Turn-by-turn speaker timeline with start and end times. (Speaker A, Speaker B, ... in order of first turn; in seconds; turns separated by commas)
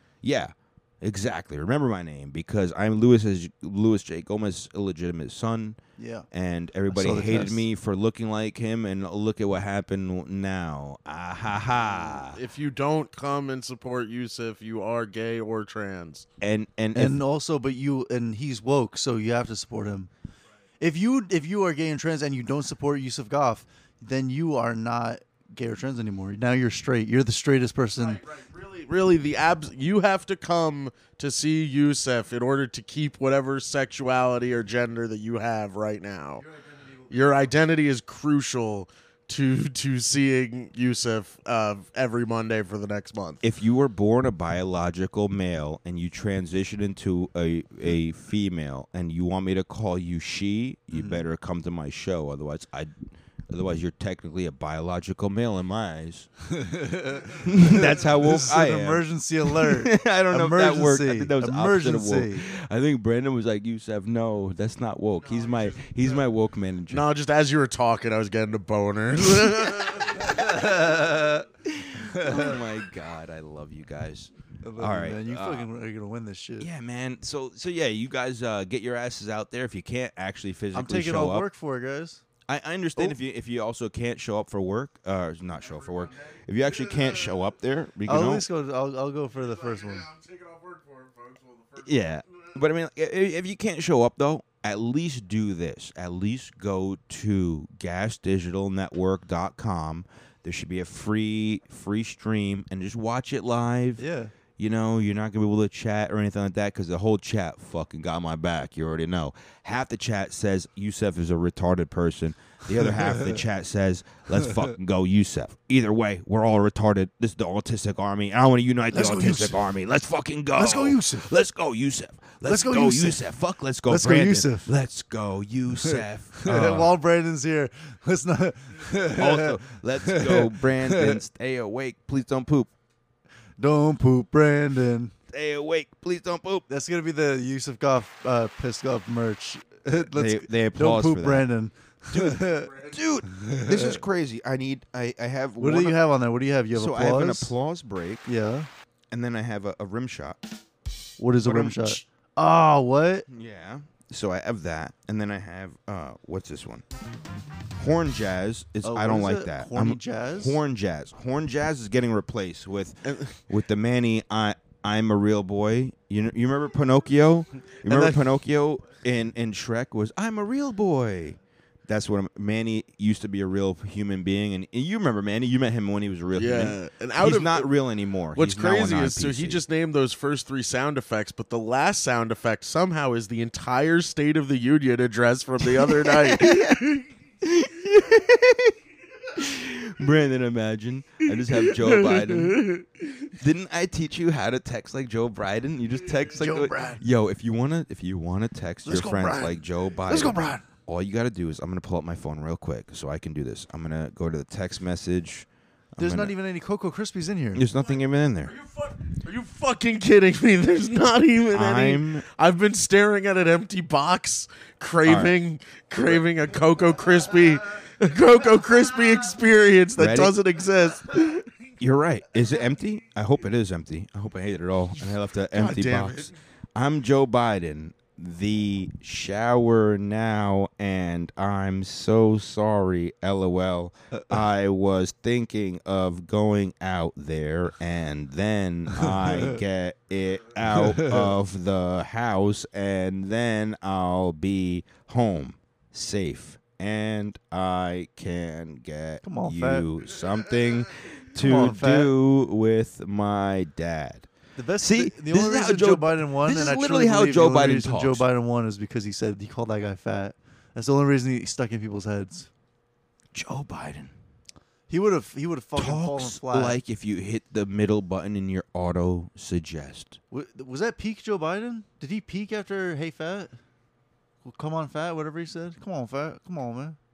Speaker A: 0.2-5.8, Speaker B: 6.0-6.3, Speaker A: 6.3-12.4, Speaker B: 6.9-7.7, Speaker C: 12.1-16.3, Speaker A: 16.4-17.2, Speaker B: 16.9-20.1, Speaker B: 20.8-28.2, Speaker C: 27.9-36.4, Speaker B: 36.4-37.1, Speaker C: 37.1-43.4, Speaker A: 43.4-53.0, Speaker B: 50.9-51.2, Speaker A: 53.5-56.3, Speaker B: 56.5-62.5, Speaker A: 57.3-67.1, Speaker C: 65.3-66.2, Speaker C: 66.9-70.6, Speaker B: 70.1-72.6, Speaker A: 71.6-75.7, Speaker B: 74.6-76.7, Speaker A: 76.6-81.5, Speaker B: 80.7-82.2, Speaker A: 82.5-88.5, Speaker C: 86.3-87.5, Speaker B: 88.0-90.1, Speaker C: 89.3-92.5, Speaker A: 91.8-104.0, Speaker B: 104.0-104.3, Speaker A: 104.6-126.9, Speaker B: 113.0-113.2, Speaker B: 118.9-119.6, Speaker B: 120.5-121.3, Speaker B: 122.4-123.3, Speaker B: 123.8-124.7, Speaker B: 125.8-131.2, Speaker A: 129.1-132.7, Speaker B: 133.6-135.1, Speaker A: 135.3-136.7, Speaker B: 136.7-142.7, Speaker A: 140.1-141.5, Speaker C: 142.1-143.0, Speaker A: 142.9-146.0, Speaker B: 143.2-144.0, Speaker B: 145.6-147.5, Speaker A: 146.7-148.2, Speaker B: 148.2-148.7, Speaker A: 149.1-150.4, Speaker B: 151.2-153.3, Speaker A: 151.4-152.0, Speaker A: 153.3-156.8, Speaker A: 157.8-179.6, Speaker B: 158.8-160.6, Speaker C: 163.1-163.4, Speaker B: 167.8-168.3, Speaker C: 176.3-177.8, Speaker C: 178.3-187.1, Speaker A: 185.8-186.9, Speaker A: 187.4-188.8, Speaker A: 189.3-192.6, Speaker C: 191.3-193.3, Speaker A: 193.4-206.3, Speaker B: 196.4-197.0, Speaker B: 198.8-200.6, Speaker B: 206.0-207.6, Speaker A: 207.5-208.5, Speaker C: 208.4-221.5, Speaker A: 211.5-212.2, Speaker A: 215.0-215.3, Speaker A: 220.0-220.4, Speaker A: 221.8-258.2, Speaker C: 225.5-226.3, Speaker B: 234.1-234.4, Speaker B: 239.0-239.6, Speaker B: 240.7-241.3, Speaker B: 249.2-249.9, Speaker B: 251.3-252.1, Speaker B: 254.6-262.5, Speaker A: 263.3-264.1, Speaker B: 264.9-266.8, Speaker A: 265.8-270.2, Speaker B: 270.3-273.6, Speaker B: 274.4-277.0